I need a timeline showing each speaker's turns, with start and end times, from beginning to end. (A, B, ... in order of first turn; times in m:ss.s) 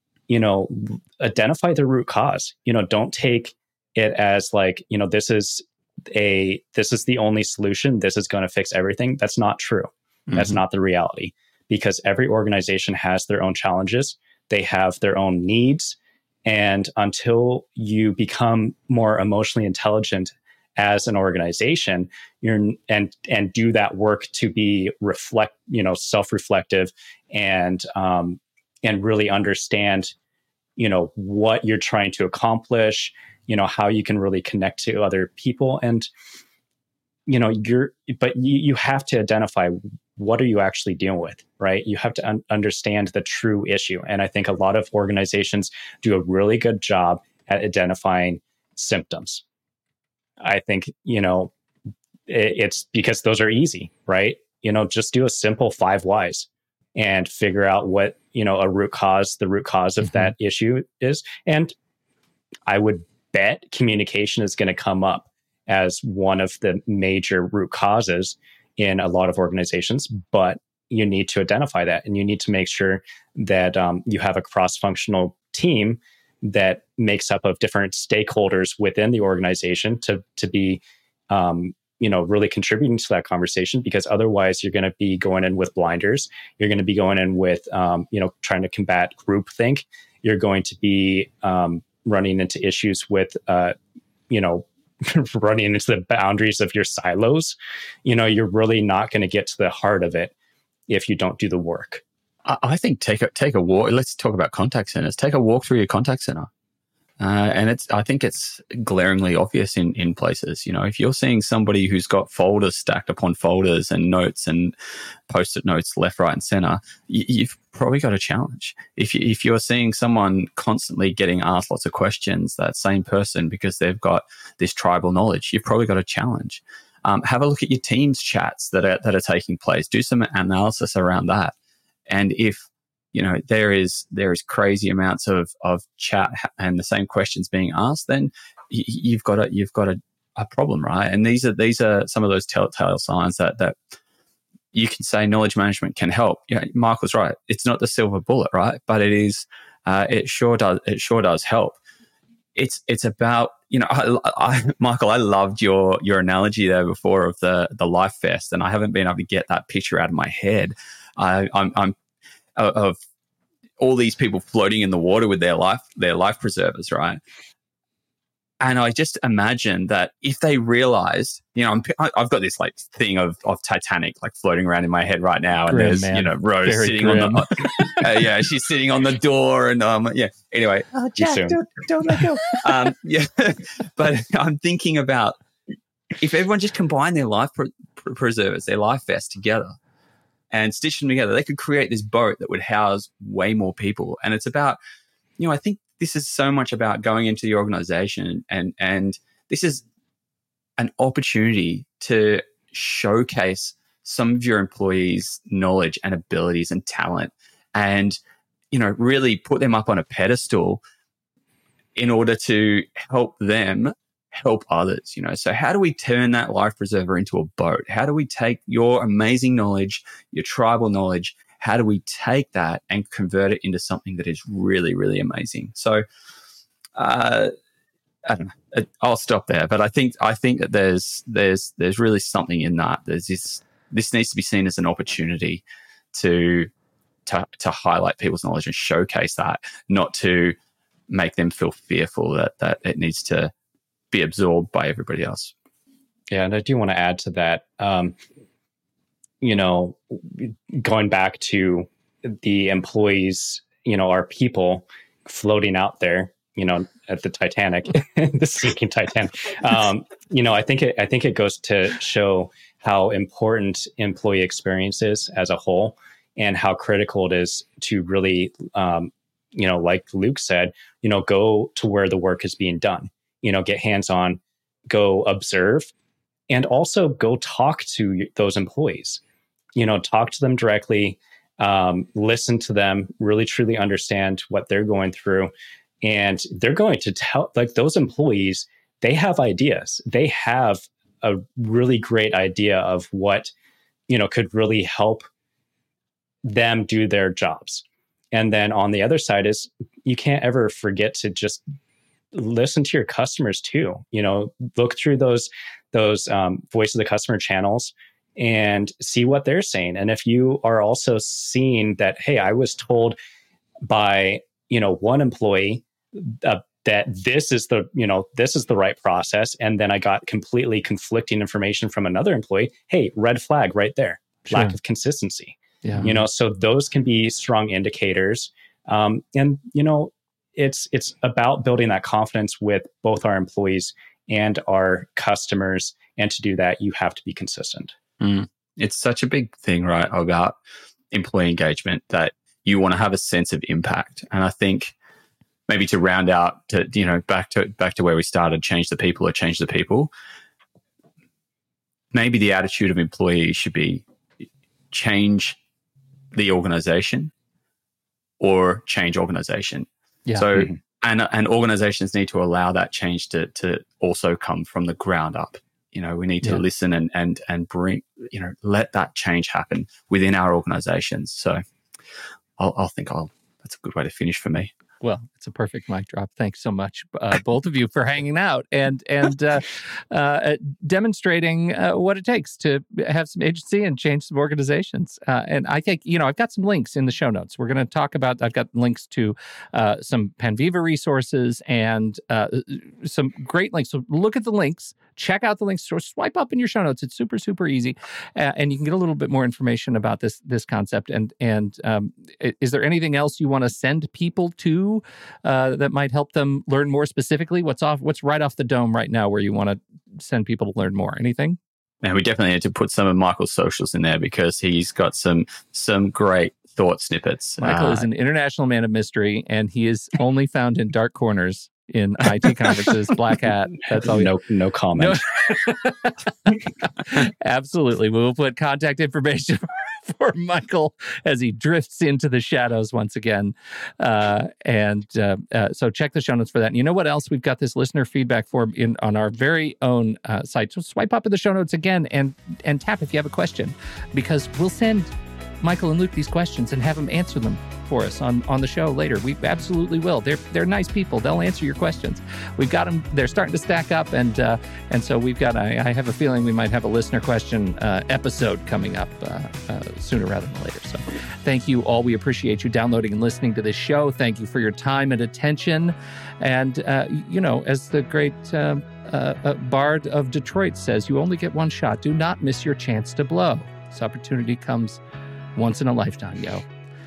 0:00.3-0:30.1 A
0:10.3-0:10.6 B
0:30.8-0:36.1 A
0:37.3-0:49.4 A
0:50.4-0:51.5 A
0:52.3-1:01.8 A
1:02.7-1:33.8 A
1:34.3-1:40.3 A
1:40.9-1:42.0 A
1:42.4-1:46.5 B
1:47.2-1:54.7 B
1:55.3-2:11.6 B
2:12.1-2:23.8 B
2:24.7-2:31.8 B
2:32.6-2:42.0 B
2:42.6-2:43.0 B
2:43.8-2:47.2 B
2:48.6-3:05.4 B
2:55.7-2:58.0 C
3:01.2-3:01.6 A
3:06.2-3:09.8 B
3:10.5-3:14.8 B
3:15.4-3:19.8 B
3:20.8-3:28.2 B
3:28.7-3:30.8 B
3:32.0-3:46.0 B
3:47.0-3:47.5 B
3:48.2-3:56.7 B
3:57.3-4:00.6 B
4:01.1-4:03.5 B
4:04.1-4:05.5 B
4:06.3-4:08.2 A
4:09.4-4:35.9 A
4:36.5-4:39.2 A
4:39.8-4:45.5 A
4:46.0-4:53.5 A
4:54.1-4:55.3 A
4:56.4-5:01.6 A
5:02.3-5:13.2 A
5:13.9-5:38.0 A
5:24.5-5:24.8 C
5:25.8-5:26.2 C
5:38.2-5:40.6 B
5:41.1-5:45.0 B
5:45.7-5:50.1 B
5:52.1-5:54.0 B
5:54.9-5:55.6 B
5:56.3-5:57.3 B
5:58.4-6:11.6 B
6:00.3-6:00.6 C
6:12.6-6:14.7 B
6:15.0-6:51.6 C
6:52.0-6:58.1 B
6:57.6-7:04.3 C
7:04.0-7:05.2 A
7:05.0-7:55.0 C
7:55.6-7:56.7 C